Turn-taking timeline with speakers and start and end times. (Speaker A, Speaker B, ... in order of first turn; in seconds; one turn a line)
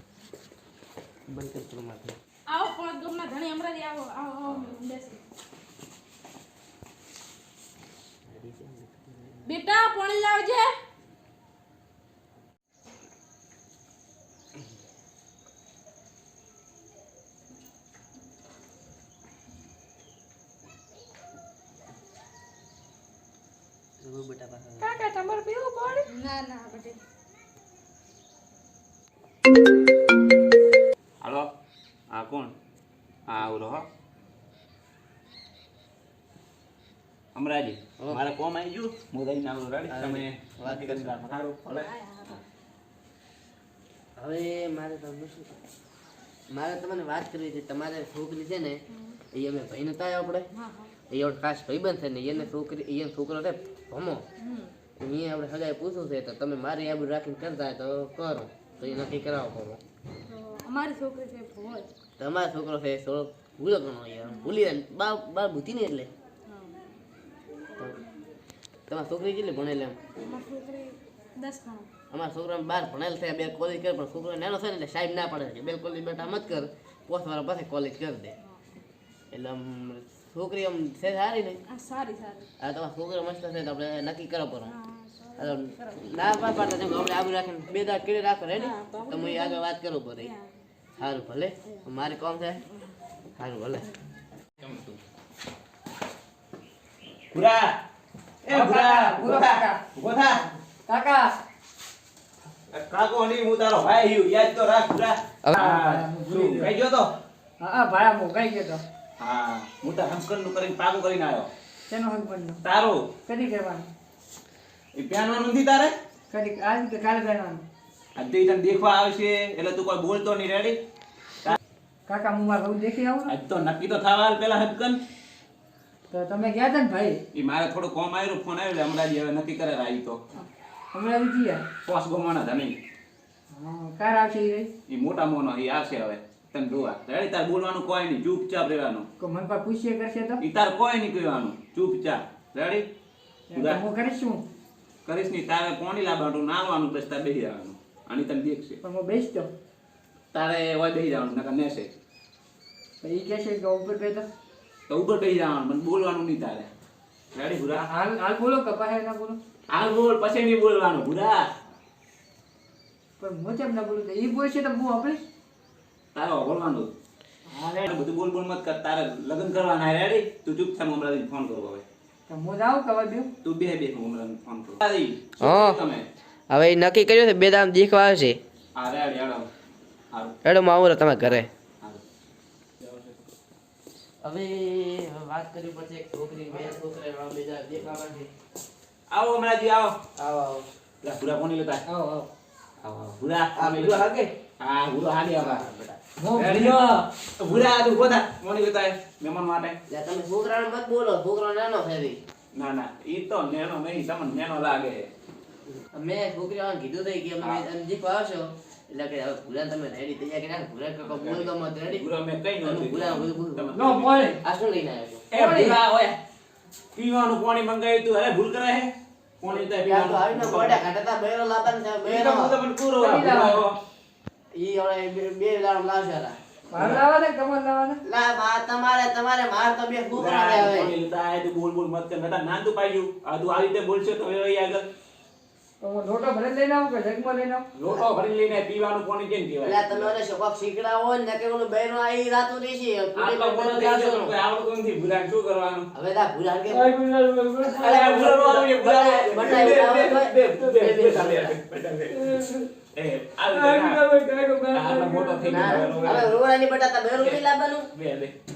Speaker A: 1.3-2.2
Speaker B: 2.5-5.2
Speaker A: 8.3-9.5
Speaker B: 9.4-10.7
Speaker A: 24.0-25.0
Speaker C: 24.8-26.1
Speaker B: 26.1-27.0
Speaker D: 31.2-31.5
Speaker D: 32.1-32.5
Speaker D: 33.3-33.9
Speaker D: 37.4-42.4
Speaker A: 39.9-41.4
Speaker B: 41.7-42.4
Speaker A: 44.2-45.5
Speaker A: 46.5-48.8
Speaker A: 49.3-50.5
Speaker B: 50.5-50.9
Speaker A: 51.1-54.2
Speaker B: 54.4-54.7
Speaker A: 55.0-59.8
Speaker B: 60.3-61.9
Speaker A: 62.2-66.1
Speaker B: 64.3-64.5
Speaker B: 66.5-66.8
Speaker A: 68.9-70.0
Speaker B: 70.2-71.9
Speaker A: 72.1-78.3
Speaker A: 79.3-81.6
Speaker B: 81.7-82.5
Speaker A: 82.6-84.8
Speaker B: 84.7-86.3
Speaker A: 85.4-90.3
Speaker B: 88.6-89.7
Speaker B: 90.2-90.4
Speaker A: 91.0-92.6
Speaker A: 93.4-93.9
Speaker D: 94.6-95.0
Speaker D: 97.3-97.7
Speaker D: 98.4-100.4
Speaker C: 98.5-99.8
Speaker C: 100.9-101.3
Speaker D: 102.7-107.1
Speaker C: 105.5-106.7
Speaker C: 107.6-108.8
Speaker D: 109.2-111.5
Speaker C: 111.9-112.6
Speaker D: 112.6-113.1
Speaker C: 113.3-113.9
Speaker D: 115.0-116.0
Speaker C: 116.3-117.6
Speaker D: 118.2-120.8
Speaker C: 122.1-123.3
Speaker D: 123.3-125.0
Speaker C: 126.1-127.2
Speaker D: 127.3-130.2
Speaker C: 130.9-131.6
Speaker D: 131.8-132.8
Speaker C: 133.5-134.7
Speaker D: 134.9-139.1
Speaker C: 139.2-140.4
Speaker D: 140.4-142.9
Speaker C: 143.5-144.4
Speaker D: 143.5-143.8
Speaker D: 145.1-148.8
Speaker C: 148.8-149.5
Speaker D: 150.3-151.9
Speaker C: 153.0-154.3
Speaker D: 154.9-156.7
Speaker D: 157.3-157.9
Speaker C: 157.8-159.4
Speaker D: 159.7-161.5
Speaker C: 163.2-165.2
Speaker D: 166.1-166.9
Speaker C: 167.5-167.9
Speaker D: 167.8-171.8
Speaker C: 172.3-173.3
Speaker D: 173.4-176.1
Speaker A: 175.4-175.8
Speaker A: 176.5-178.4
Speaker D: 178.8-179.5
Speaker A: 180.4-181.5
Speaker D: 181.2-182.0
Speaker D: 182.8-183.2
Speaker A: 184.2-188.3
Speaker D: 189.1-190.0
Speaker A: 190.2-190.7
Speaker D: 191.0-191.8
Speaker C: 191.9-192.3
Speaker D: 192.8-194.1
Speaker A: 193.6-194.3
Speaker D: 194.6-195.7
Speaker A: 195.3-196.0
Speaker C: 196.2-197.1
Speaker D: 196.3-196.8
Speaker D: 197.4-199.8
Speaker A: 199.9-202.2
Speaker D: 202.5-205.1
Speaker A: 205.8-212.1
Speaker D: 211.0-214.3
Speaker A: 212.6-213.8
Speaker C: 213.7-214.4
Speaker A: 214.4-215.3
Speaker D: 215.3-216.2
Speaker C: 215.3-215.8
Speaker D: 216.9-220.8
Speaker A: 219.5-222.6
Speaker D: 222.0-223.8
Speaker C: 223.0-223.7
Speaker A: 224.6-226.4
Speaker C: 226.7-228.0
Speaker D: 226.8-227.0
Speaker A: 228.1-230.9
Speaker D: 230.1-234.9
Speaker C: 235.8-237.7
Speaker D: 237.8-240.1
Speaker A: 239.6-244.3
Speaker D: 243.2-245.9
Speaker A: 245.9-246.9
Speaker C: 246.7-248.2
Speaker A: 247.7-251.6
Speaker D: 247.8-252.4
Speaker C: 252.1-252.7
Speaker D: 252.9-254.0
Speaker C: 253.5-256.3
Speaker D: 254.7-256.4
Speaker A: 255.5-257.9
Speaker D: 257.1-257.4
Speaker D: 257.9-258.4